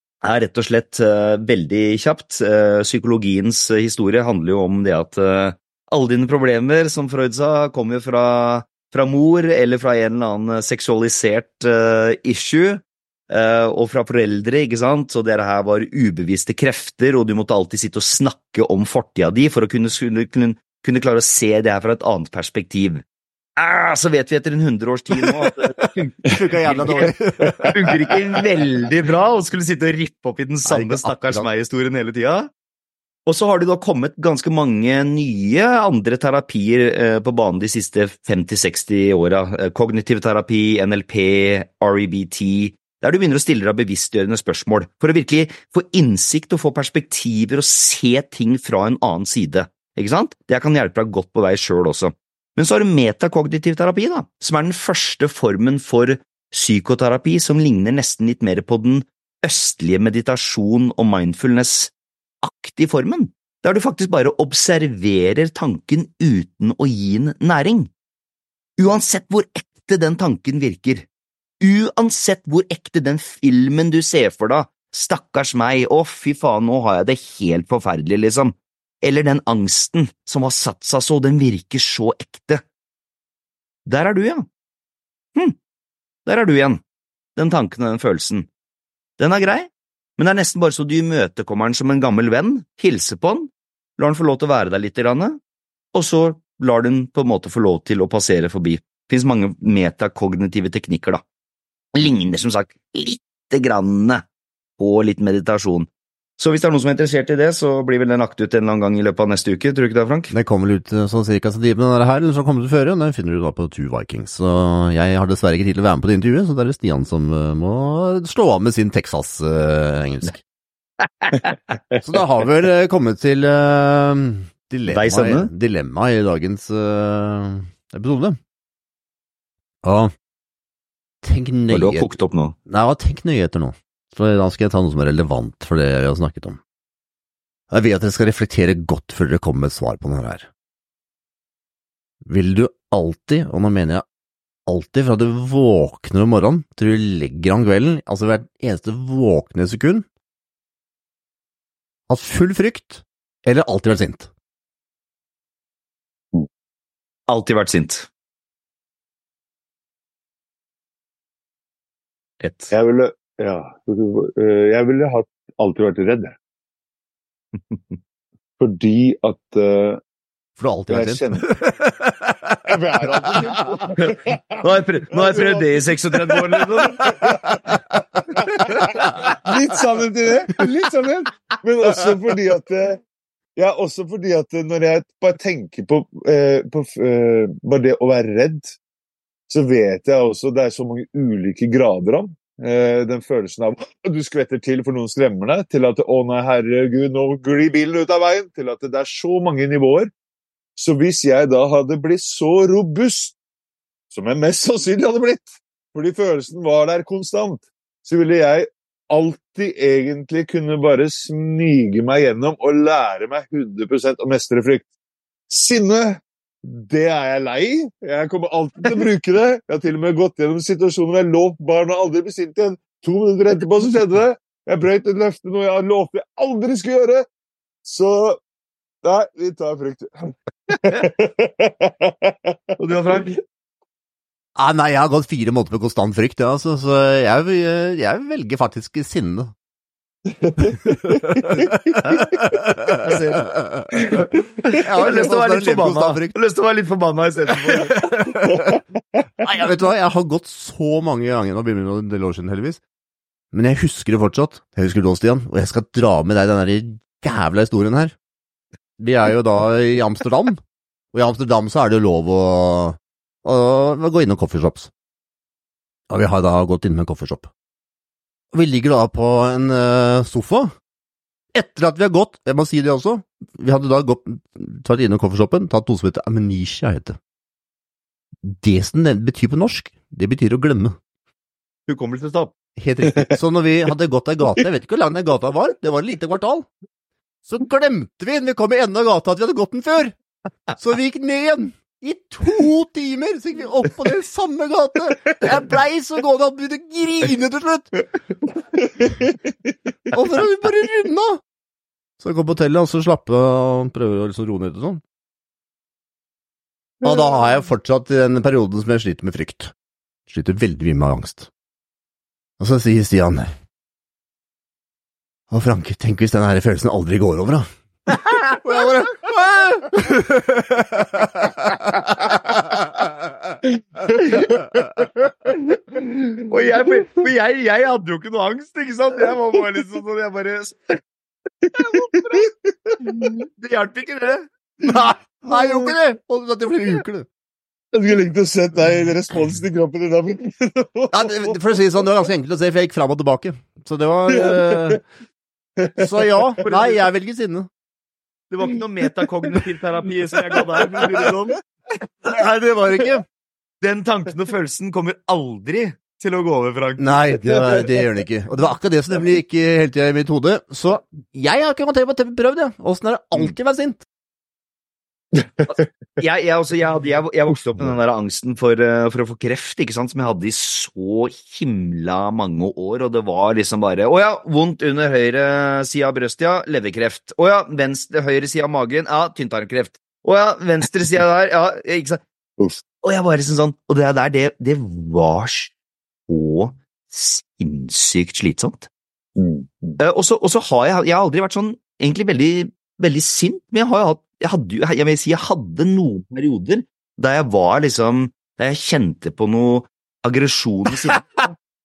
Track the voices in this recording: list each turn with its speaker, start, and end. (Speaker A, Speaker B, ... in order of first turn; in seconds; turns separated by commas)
Speaker A: 0.2-23.0, Speaker A: 23.6-27.1, Speaker B: 25.2-27.8, Speaker C: 27.4-27.7, Speaker A: 27.7-32.5, Speaker B: 30.6-31.5, Speaker A: 33.2-67.9, Speaker A: 68.8-71.1, Speaker A: 71.6-82.6, Speaker A: 83.8-84.5, Speaker A: 86.2-86.8, Speaker A: 87.3-88.5, Speaker A: 89.2-95.4, Speaker A: 95.9-101.2, Speaker A: 101.9-104.2, Speaker A: 104.8-110.3, Speaker B: 110.3-120.4, Speaker B: 122.0-128.4, Speaker A: 124.8-125.5, Speaker B: 129.8-130.1, Speaker B: 131.2-132.1, Speaker A: 131.7-132.5, Speaker B: 132.7-136.6, Speaker B: 137.7-140.5, Speaker B: 142.2-144.0, Speaker B: 144.7-150.1, Speaker B: 152.1-154.3, Speaker A: 157.3-158.1, Speaker A: 162.4-162.7, Speaker C: 162.7-166.3, Speaker A: 167.7-167.9, Speaker C: 168.6-170.0, Speaker B: 170.6-173.9, Speaker C: 170.9-171.4, Speaker C: 172.6-177.8, Speaker A: 174.0-177.0, Speaker B: 177.0-178.2, Speaker C: 178.4-183.0, Speaker A: 178.7-179.4, Speaker B: 178.8-179.3, Speaker C: 183.6-188.8, Speaker C: 189.5-200.1, Speaker C: 200.8-203.3, Speaker C: 204.1-214.9, Speaker C: 215.5-227.2, Speaker C: 227.8-228.4, Speaker C: 229.0-233.2, Speaker A: 232.8-233.4, Speaker B: 234.6-239.5, Speaker C: 240.4-242.3, Speaker B: 240.8-243.9, Speaker A: 242.0-242.3, Speaker A: 242.9-247.9, Speaker B: 244.8-246.3, Speaker B: 247.7-248.8, Speaker B: 249.4-252.8, Speaker B: 253.5-258.1, Speaker B: 259.0-260.6, Speaker B: 261.1-264.9, Speaker B: 266.1-267.5, Speaker B: 268.5-270.7, Speaker B: 271.5-277.2, Speaker B: 278.4-280.9, Speaker A: 281.9-282.5, Speaker B: 282.8-286.7, Speaker B: 287.4-290.1, Speaker B: 290.7-297.9, Speaker B: 300.1-301.4, Speaker B: 302.2-305.0, Speaker B: 307.0-309.7, Speaker B: 310.3-311.5, Speaker B: 312.6-313.5, Speaker B: 315.5-322.8, Speaker C: 324.1-326.1, Speaker A: 326.5-331.0, Speaker C: 331.6-333.0, Speaker A: 331.7-332.5, Speaker A: 333.0-334.5, Speaker B: 334.8-337.2, Speaker C: 335.5-335.9, Speaker C: 337.9-341.8, Speaker B: 341.1-345.0, Speaker C: 344.3-345.0, Speaker C: 345.8-346.5, Speaker B: 346.0-347.7, Speaker A: 346.6-347.0, Speaker A: 348.5-351.6, Speaker C: 351.0-351.3, Speaker B: 352.2-353.2, Speaker A: 353.8-357.9, Speaker B: 357.0-364.0, Speaker A: 366.2-382.2, Speaker A: 383.0-385.7, Speaker A: 386.3-388.9, Speaker C: 389.4-390.0, Speaker A: 390.0-401.5